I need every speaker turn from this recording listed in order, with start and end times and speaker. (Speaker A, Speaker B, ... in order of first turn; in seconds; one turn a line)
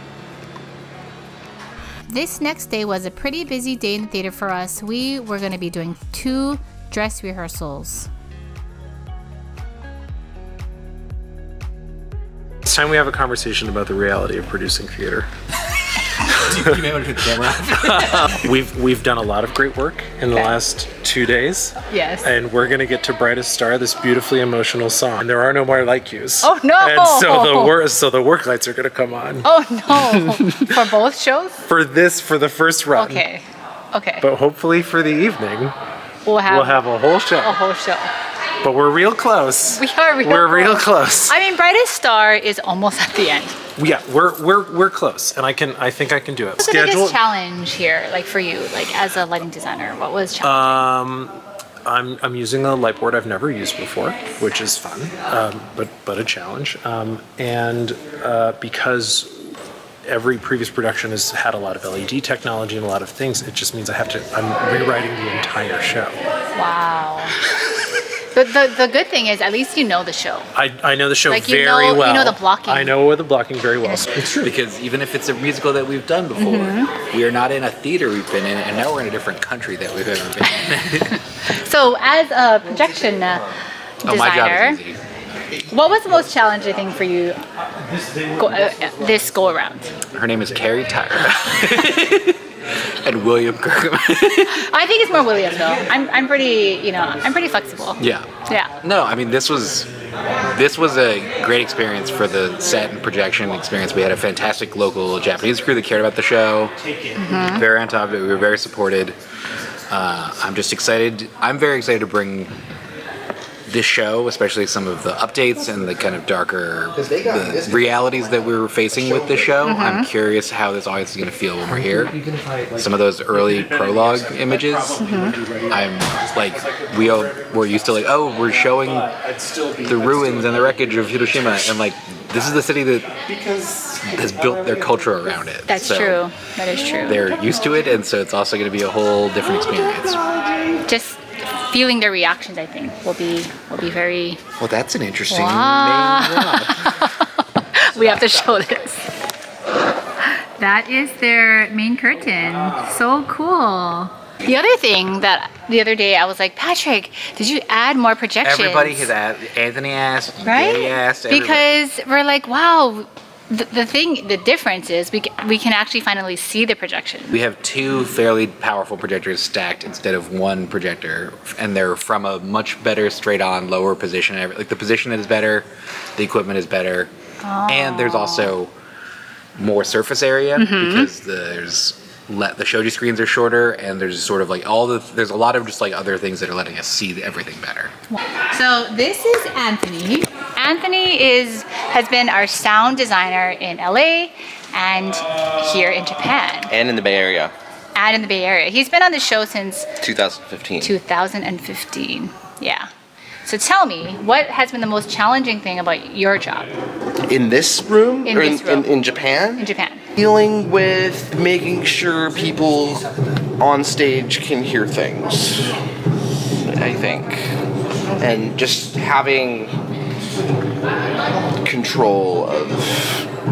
Speaker A: 2.1-8.1
Speaker B: 12.7-15.3
Speaker C: 16.3-18.3
Speaker B: 17.8-29.5
Speaker A: 21.9-22.3
Speaker A: 26.4-27.7
Speaker A: 29.4-31.6
Speaker B: 30.0-30.6
Speaker B: 31.7-33.2
Speaker A: 33.0-34.3
Speaker B: 34.2-35.8
Speaker A: 36.3-36.8
Speaker B: 36.5-37.5
Speaker A: 37.4-38.1
Speaker B: 38.6-41.4
Speaker A: 39.7-43.6
Speaker B: 43.8-47.2
Speaker A: 46.6-50.9
Speaker B: 50.4-59.5
Speaker B: 60.1-66.2
Speaker A: 66.5-67.4
Speaker A: 68.3-70.5
Speaker B: 70.5-74.5
Speaker A: 71.3-73.0
Speaker C: 74.4-81.1
Speaker A: 76.4-76.9
Speaker A: 81.5-83.5
Speaker A: 84.0-84.8
Speaker C: 84.0-85.0
Speaker A: 85.7-87.4
Speaker A: 88.4-89.9
Speaker C: 90.1-92.4
Speaker C: 93.0-94.7
Speaker A: 94.5-98.7
Speaker C: 98.0-98.3
Speaker C: 98.8-99.9
Speaker C: 100.5-106.8
Speaker A: 107.2-107.6
Speaker C: 107.5-109.2
Speaker C: 109.9-112.5
Speaker C: 113.7-122.2
Speaker D: 116.9-118.0
Speaker D: 118.9-119.5
Speaker A: 119.6-120.1
Speaker C: 122.8-125.0
Speaker B: 123.3-127.9
Speaker A: 125.0-125.3
Speaker C: 125.7-129.1
Speaker B: 128.5-131.1
Speaker C: 129.9-133.2
Speaker B: 133.3-134.7
Speaker C: 134.0-136.3
Speaker A: 135.7-137.3
Speaker C: 136.9-140.2
Speaker A: 140.9-144.4
Speaker C: 144.6-146.0
Speaker A: 145.3-149.1
Speaker D: 145.5-146.6
Speaker A: 150.2-159.1
Speaker C: 158.4-161.7
Speaker A: 160.4-167.4
Speaker C: 167.3-177.1
Speaker A: 177.4-178.6
Speaker C: 177.7-178.7
Speaker C: 179.6-187.9
Speaker A: 180.6-181.1
Speaker A: 188.1-196.7
Speaker D: 196.7-197.5
Speaker A: 198.0-199.9
Speaker D: 200.0-201.0
Speaker A: 200.8-202.9
Speaker A: 203.5-206.7
Speaker D: 207.3-209.7
Speaker A: 208.2-208.9
Speaker A: 209.6-210.0
Speaker D: 210.2-213.1
Speaker D: 213.6-215.7
Speaker D: 216.7-217.5
Speaker D: 218.2-219.7
Speaker D: 221.6-223.3